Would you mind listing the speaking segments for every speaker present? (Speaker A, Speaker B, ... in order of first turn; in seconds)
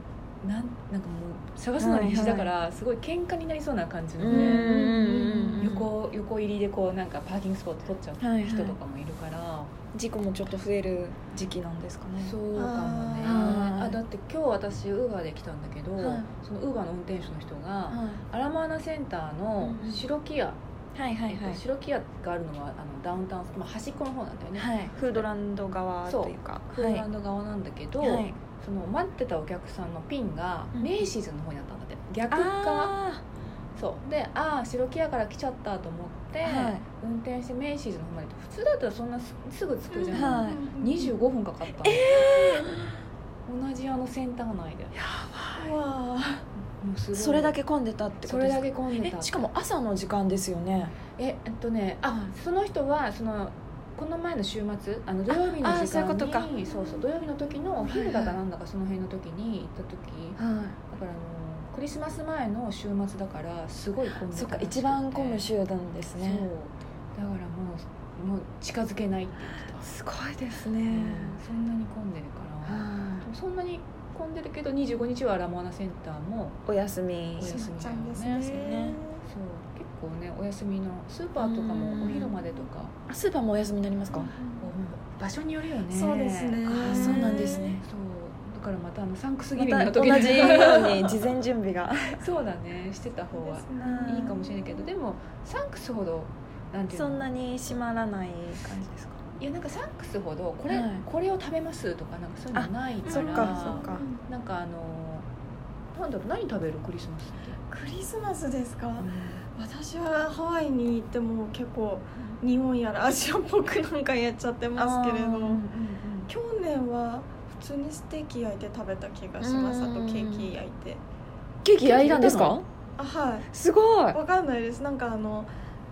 Speaker A: 0.4-9.7, 12.2-20.6, 21.3-25.2, 26.1-33.0, 33.8-42.1, 43.5-45.0, 46.8-47.5, 48.2-49.4, 51.2-65.5, 66.2-69.9, 70.8-76.6, 77.4-78.5, 79.2-82.9, 84.6-91.2, 92.1-97.3, 99.4-105.3, 105.9-107.6, 109.0-109.4, 114.8-116.3, 121.8-122.6
Speaker B: 1.8-2.5, 4.2-5.9, 8.2-8.8, 9.9-12.4, 13.2-14.0, 16.0-16.3, 17.9-18.2, 19.6-20.0, 20.9-21.6, 24.6-27.1, 28.0-28.4, 32.3-33.2, 36.4-36.8, 40.1-40.6, 41.8-42.9, 45.0-45.7, 47.1-51.0, 55.3-56.5, 57.9-58.4, 60.4-60.8, 64.3-66.5, 69.8-71.4, 72.6-73.3, 76.7-77.7, 78.5-79.0, 81.4-82.4, 83.1-84.3, 86.7-87.8, 89.5-92.2, 93.8-94.4, 96.9-99.2, 100.7-101.0, 102.5-104.0, 119.4-120.5, 121.6-122.7, 123.5-124.2
Speaker C: 4.2-5.6, 12.5-13.5, 39.9-41.1, 45.5-46.5, 77.4-79.2, 84.1-84.7, 85.9-87.8, 93.3-94.9, 103.0-104.2, 107.7-115.6, 116.3-121.0, 123.0-123.5, 124.1-125.5